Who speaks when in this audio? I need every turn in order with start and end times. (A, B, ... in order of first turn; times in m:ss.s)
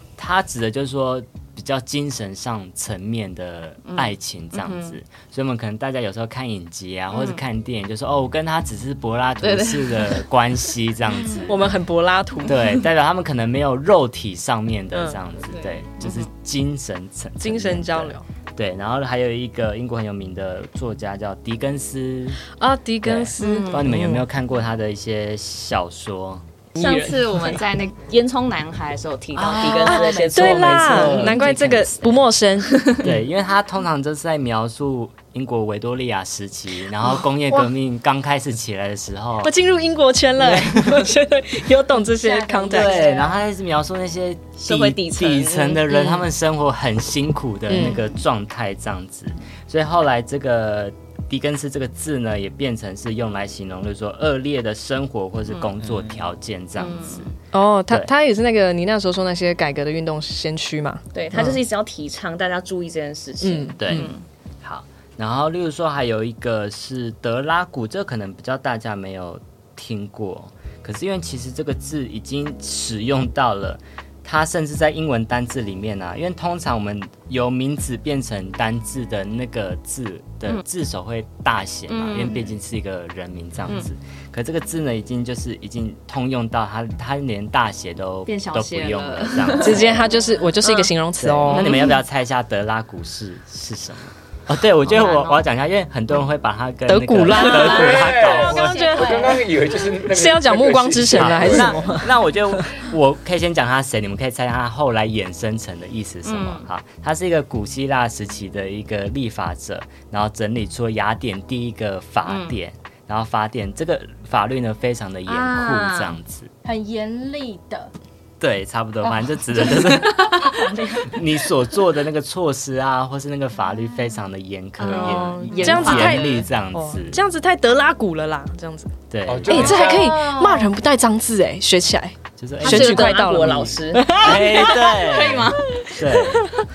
0:00.2-0:11.6 A
0:03.8-0:05.0 B
0:07.1-0:07.4 B
0:09.4-0:10.2 B
0:11.1-0:11.5 B
0:11.5-0:12.6 C
0:12.4-0:22.4 A
0:14.9-0:15.2 C
0:15.5-0:16.3 B
0:17.4-0:18.2 C
0:22.6-0:24.2 C
0:23.0-0:26.4 A
0:23.4-0:23.9 B
0:26.7-0:27.6 C
0:26.8-0:31.8 B
0:29.3-0:32.2 A
0:29.7-0:32.9 C
0:32.6-0:33.0 B
0:33.0-0:39.6 A
0:39.4-0:43.1 C
0:40.4-0:41.1 A
0:42.0-0:43.4 D
0:42.7-0:57.3 A
0:44.6-0:46.0 B
0:45.9-0:46.2 C
0:47.7-0:48.0 C
0:47.8-0:48.2 D
0:55.8-0:56.2 E
0:56.8-0:57.3 B
0:57.5-1:01.6 C
1:01.1-1:04.2 B
1:03.4-1:04.1 C
1:03.8-1:30.0 A
1:21.9-1:22.6 B
1:28.3-1:30.9 B
1:29.6-1:31.8 C
1:31.2-1:38.9 A
1:31.5-1:32.0 B
1:34.8-1:35.4 B
1:36.9-1:39.4 C
1:37.3-1:38.9 B
1:37.6-1:42.0 E
1:38.1-1:39.8 D
1:40.0-1:42.6 C
1:41.1-1:56.5 A
1:46.2-1:46.7 B
1:52.2-1:52.6 B
1:55.3-1:56.2 B
1:56.6-1:57.9 D
1:58.4-2:00.6 A
1:59.0-2:01.2 D
1:59.8-2:00.6 B
2:01.1-2:07.2 A
2:03.7-2:04.1 D
2:04.8-2:06.4 B
2:04.9-2:08.9 C
2:09.1-2:09.8 A
2:09.2-2:10.2 E
2:09.4-2:14.9 C
2:09.6-2:10.7 D
2:12.4-2:13.2 A
2:12.6-2:15.6 B
2:14.1-2:16.5 A
2:15.8-2:16.4 C